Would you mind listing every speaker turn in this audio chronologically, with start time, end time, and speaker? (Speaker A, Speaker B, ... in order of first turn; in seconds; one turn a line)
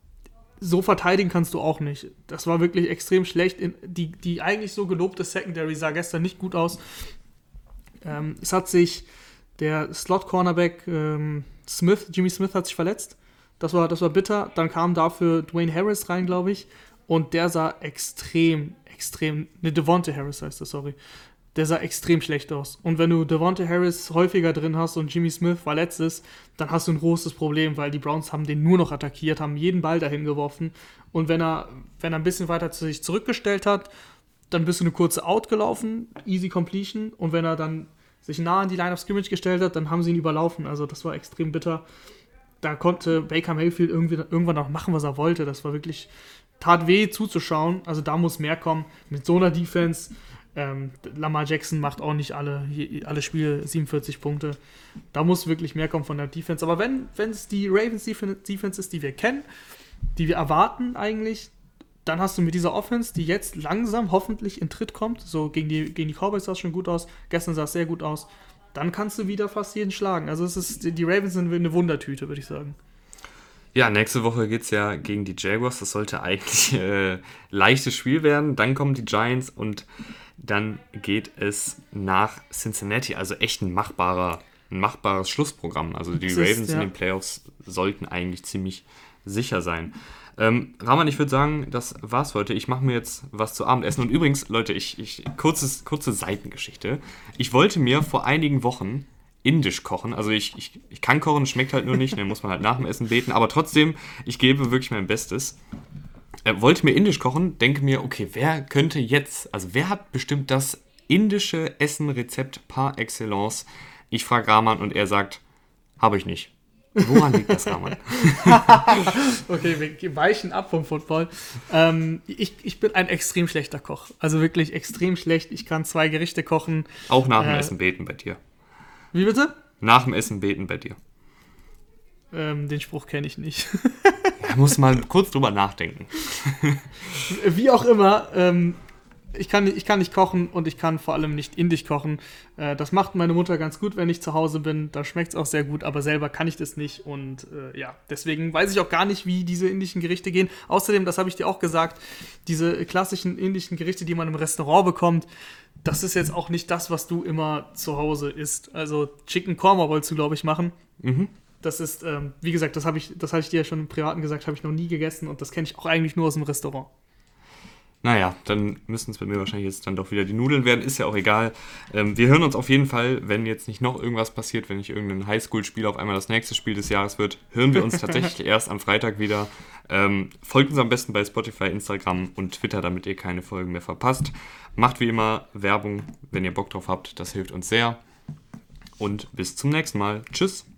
Speaker A: 0.6-6.8
Speaker A: 8.0-20.9
Speaker A: 21.5-33.9
Speaker A: 34.5-41.8
Speaker A: 42.6-54.6
Speaker A: 55.1-59.5
Speaker A: 60.1-61.5
Speaker A: 62.0-72.8
Speaker B: 73.7-79.9
Speaker B: 80.4-105.6
Speaker A: 86.2-86.9
Speaker B: 106.4-115.4
Speaker B: 116.0-119.1
Speaker A: 117.1-127.7
Speaker B: 127.1-128.4
Speaker A: 129.1-129.5
Speaker B: 129.8-131.0
Speaker A: 132.3-134.3
Speaker B: 134.4-136.9
Speaker A: 137.3-138.8
Speaker A: 139.3-155.3
Speaker A: 155.8-160.7
Speaker B: 161.0-161.3
Speaker A: 161.6-166.9
Speaker B: 168.0-188.0
Speaker B: 189.0-190.7